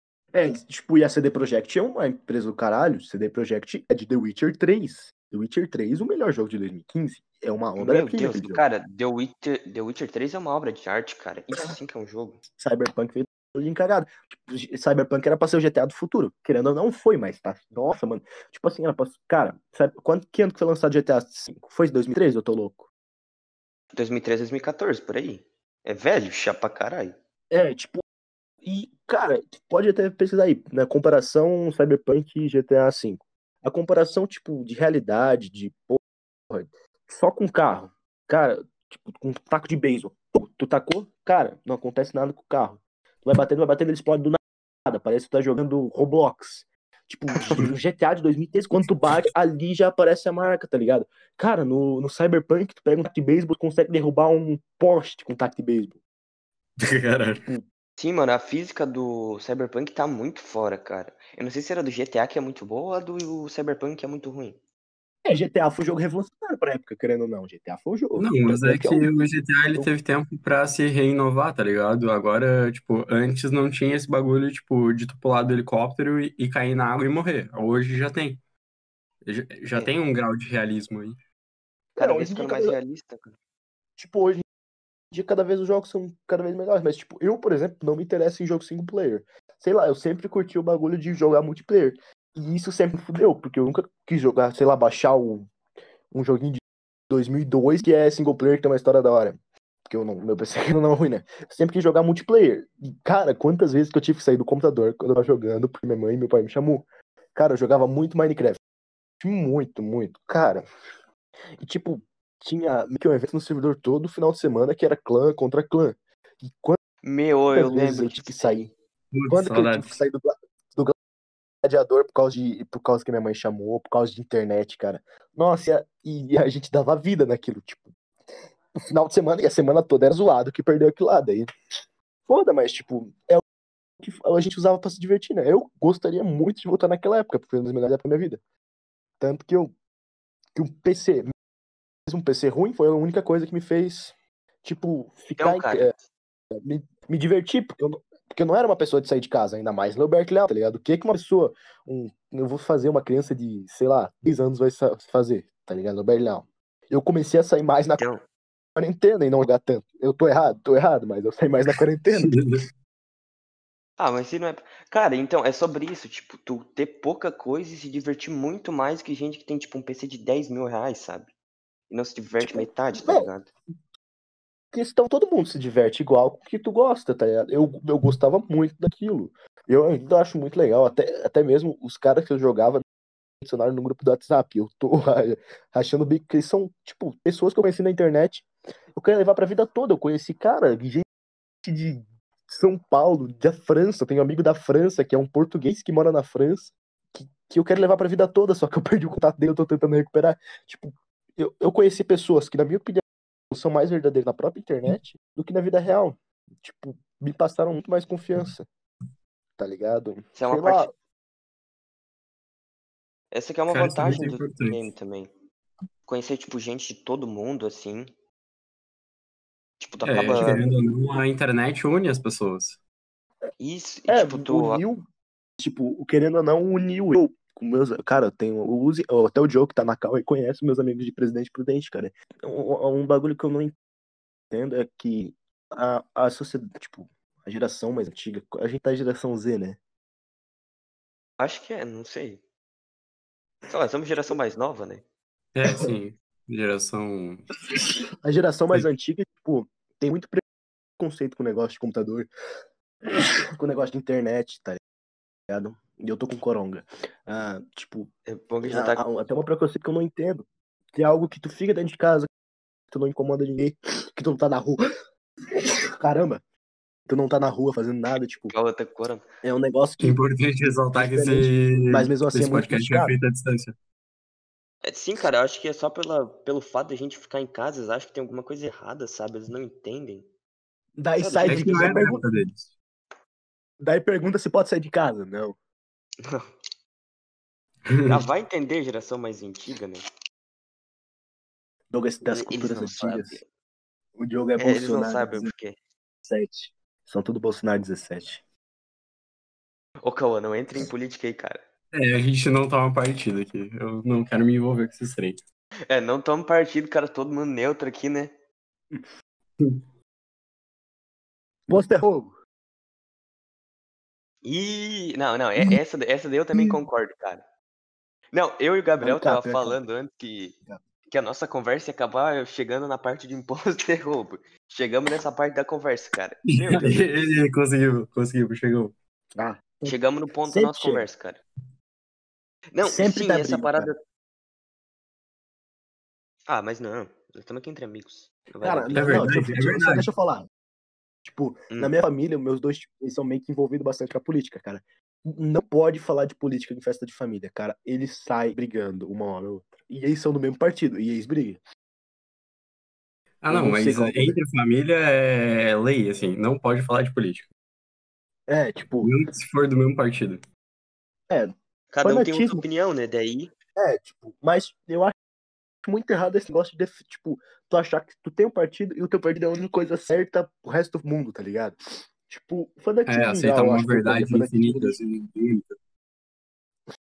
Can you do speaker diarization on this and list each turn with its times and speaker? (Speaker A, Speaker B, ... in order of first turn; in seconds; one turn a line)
Speaker A: 0.3-8.6
Speaker B: 7.8-12.4
Speaker A: 12.5-22.9
Speaker B: 23.9-27.1
Speaker A: 27.5-28.0
Speaker A: 28.6-56.0
Speaker C: 56.8-57.5
Speaker B: 58.0-64.6
Speaker A: 65.2-69.9
Speaker C: 68.2-78.4
Speaker C: 79.2-81.2
Speaker B: 82.0-83.4
Speaker A: 82.0-82.8
Speaker A: 84.0-84.5
Speaker A: 85.1-95.5
Speaker A: 96.1-108.6
Speaker A: 109.2-110.7
Speaker A: 111.6-116.8
Speaker B: 117.0-118.7
Speaker A: 117.5-118.7
Speaker C: 119.1-120.0
Speaker A: 119.3-120.9
Speaker A: 121.6-127.9
Speaker A: 128.9-131.5
Speaker A: 132.3-133.4
Speaker A: 134.0-138.4
Speaker A: 139.2-139.7
Speaker A: 140.6-141.3
Speaker A: 142.1-145.9
Speaker B: 145.4-146.0
Speaker A: 146.6-158.0
Speaker B: 158.0-158.2
Speaker A: 158.8-162.4
Speaker C: 162.1-162.6
Speaker B: 164.0-171.3
Speaker B: 171.9-173.5
Speaker A: 172.4-173.3
Speaker A: 174.7-182.8
Speaker A: 183.4-191.1
Speaker A: 191.7-208.7
Speaker A: 209.6-210.9
Speaker B: 210.4-210.9
Speaker B: 213.3-215.3
Speaker C: 213.7-214.9
Speaker B: 216.1-218.1
Speaker B: 219.8-220.7
Speaker C: 220.0-222.8
Speaker B: 223.6-224.8
Speaker A: 224.1-225.0
Speaker A: 225.6-233.8
Speaker A: 234.5-239.8
Speaker B: 241.4-242.4
Speaker B: 243.7-245.0
Speaker C: 245.6-247.5
Speaker A: 248.2-250.4
Speaker A: 251.0-252.3
Speaker A: 253.1-254.8
Speaker A: 255.5-258.1
Speaker B: 258.3-259.0
Speaker A: 258.6-260.4
Speaker A: 260.9-262.3
Speaker A: 262.9-264.8
Speaker A: 265.5-266.4
Speaker A: 267.1-268.5
Speaker B: 268.5-269.2
Speaker A: 269.4-273.1
Speaker C: 270.0-273.8
Speaker B: 274.8-280.3
Speaker A: 281.0-282.3
Speaker B: 281.2-282.1
Speaker C: 281.4-282.7
Speaker A: 283.8-285.6
Speaker B: 286.2-286.5
Speaker C: 287.9-288.2
Speaker B: 288.1-290.0
Speaker A: 291.9-293.4
Speaker B: 292.3-293.5
Speaker A: 294.2-295.5
Speaker B: 294.6-295.8
Speaker A: 296.2-298.4
Speaker B: 300.0-301.6
Speaker C: 301.9-305.4
Speaker B: 305.9-308.3
Speaker A: 311.7-312.3
Speaker B: 314.4-317.4
Speaker A: 316.5-316.8
Speaker B: 318.3-327.1
Speaker A: 319.0-319.8
Speaker C: 326.5-328.9
Speaker A: 329.4-331.1
Speaker B: 329.9-331.4
Speaker B: 332.7-334.0
Speaker A: 332.8-333.9
Speaker B: 336.5-339.5
Speaker A: 338.6-340.5
Speaker C: 338.9-340.1
Speaker A: 341.2-351.6
Speaker C: 353.4-357.5
Speaker A: 353.5-354.4
Speaker A: 358.5-359.1
Speaker C: 359.0-360.4
Speaker A: 361.3-362.6
Speaker B: 361.9-363.5
Speaker A: 363.8-365.1
Speaker A: 365.8-375.0
Speaker C: 373.1-375.8